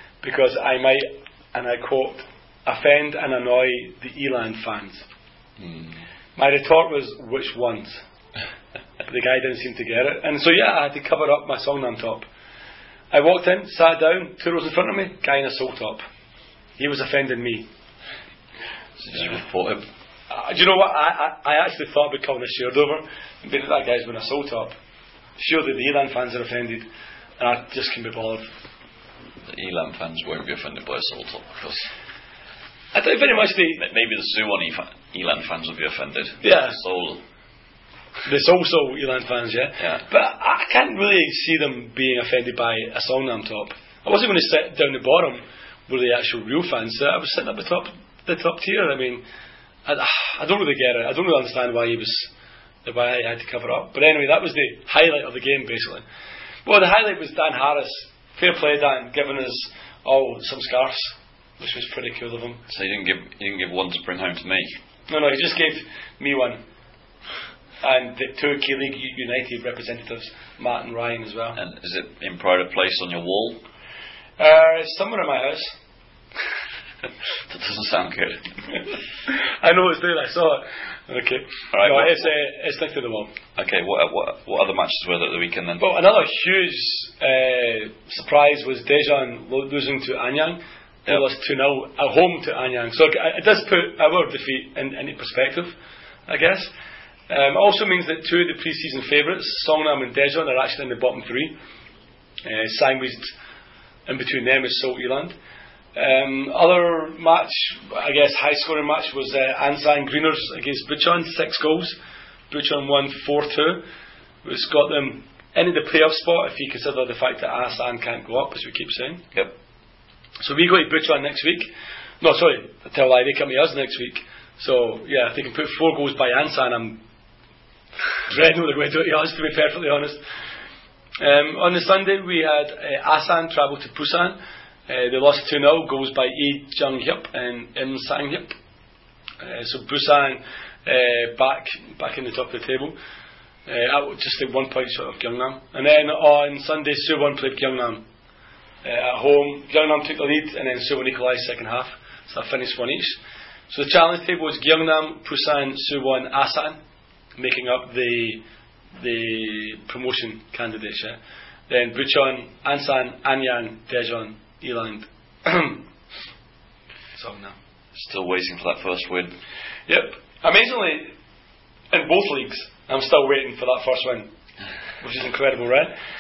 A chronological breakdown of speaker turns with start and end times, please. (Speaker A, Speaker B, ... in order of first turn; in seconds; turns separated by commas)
Speaker A: 0.2-5.1, Speaker B: 5.6-6.0, Speaker A: 6.4-8.0, Speaker A: 9.0-12.3, Speaker A: 13.1-16.1, Speaker A: 16.8-17.7, Speaker B: 19.0-19.9, Speaker A: 20.3-24.8, Speaker A: 25.4-26.9, Speaker A: 27.4-28.5, Speaker B: 29.4-31.9, Speaker A: 32.9-33.8, Speaker B: 33.8-37.2, Speaker A: 36.4-36.8, Speaker A: 38.3-49.2, Speaker A: 49.9-52.3, Speaker A: 52.9-56.0, Speaker A: 56.6-62.6, Speaker B: 62.7-64.8, Speaker A: 65.1-66.6, Speaker A: 67.8-71.6, Speaker B: 71.6-73.6, Speaker A: 74.4-75.8, Speaker B: 77.5-78.8, Speaker A: 79.3-83.3, Speaker B: 81.7-82.3, Speaker B: 83.6-85.8, Speaker A: 85.8-95.7, Speaker A: 96.3-96.7, Speaker A: 97.3-101.6, Speaker A: 102.4-103.3, Speaker A: 104.1-105.4, Speaker A: 106.0-112.0, Speaker A: 112.5-113.8, Speaker A: 114.4-119.2, Speaker A: 120.4-127.0, Speaker A: 128.3-130.2, Speaker A: 131.2-138.6, Speaker A: 139.4-143.0, Speaker A: 143.7-148.1, Speaker A: 148.8-156.8, Speaker A: 157.4-158.4, Speaker A: 159.0-165.9, Speaker A: 167.2-167.6, Speaker B: 167.9-169.4, Speaker A: 169.9-171.1, Speaker A: 171.9-174.3, Speaker A: 175.0-175.9